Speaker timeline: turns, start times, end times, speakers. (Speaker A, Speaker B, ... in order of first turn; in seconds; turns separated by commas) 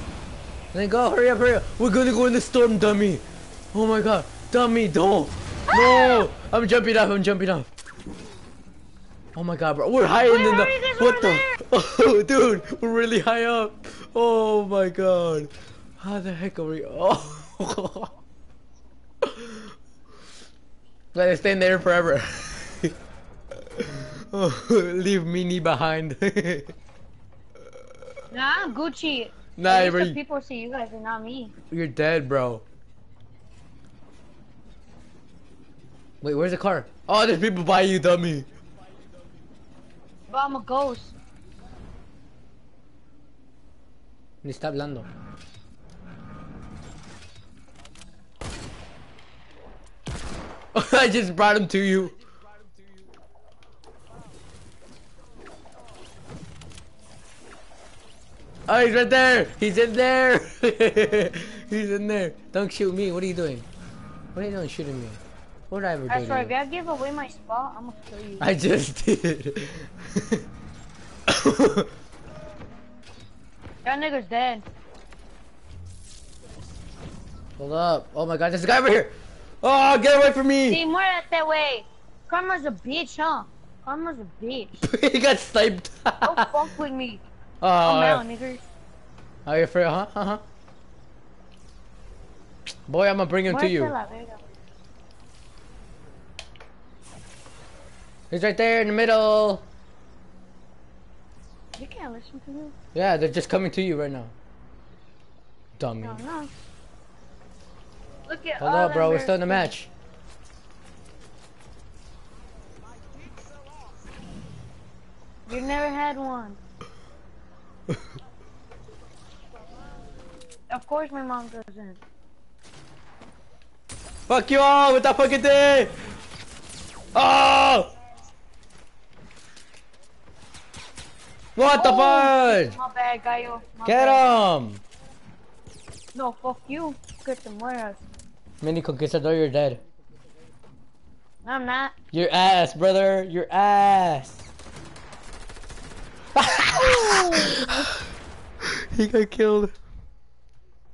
Speaker A: 0.7-7.7, Speaker B: 5.7-6.3, Speaker A: 9.3-18.1, Speaker B: 10.1-11.6, Speaker A: 21.1-22.9, Speaker A: 23.8-26.7, Speaker B: 28.3-31.5, Speaker A: 29.6-30.2, Speaker A: 31.7-32.6, Speaker A: 36.2-38.5, Speaker B: 40.3-41.1, Speaker A: 44.4-45.1, Speaker A: 50.7-52.1, Speaker A: 58.7-63.6, Speaker A: 64.3-66.5, Speaker B: 66.1-68.5, Speaker A: 68.4-70.4, Speaker A: 71.3-71.9, Speaker B: 73.8-74.7, Speaker A: 77.6-80.8, Speaker B: 80.7-84.8, Speaker A: 84.8-86.5, Speaker B: 86.2-87.2, Speaker A: 87.6-88.2, Speaker B: 87.8-88.7, Speaker A: 89.5-90.4, Speaker A: 92.9-93.9, Speaker B: 93.5-94.4, Speaker A: 98.3-99.7, Speaker B: 101.8-102.7, Speaker A: 102.9-104.3, Speaker A: 105.8-106.2, Speaker B: 106.0-106.5, Speaker B: 108.2-109.7, Speaker A: 108.6-109.9, Speaker B: 115.5-116.6, Speaker B: 120.7-122.0, Speaker A: 124.3-125.9, Speaker A: 127.1-127.9, Speaker A: 131.6-132.7, Speaker B: 131.7-134.2, Speaker A: 133.8-134.8, Speaker B: 136.1-138.0, Speaker A: 138.6-139.8, Speaker B: 141.4-141.9, Speaker A: 142.1-144.4, Speaker A: 146.3-147.9, Speaker B: 146.6-147.9, Speaker A: 148.8-149.7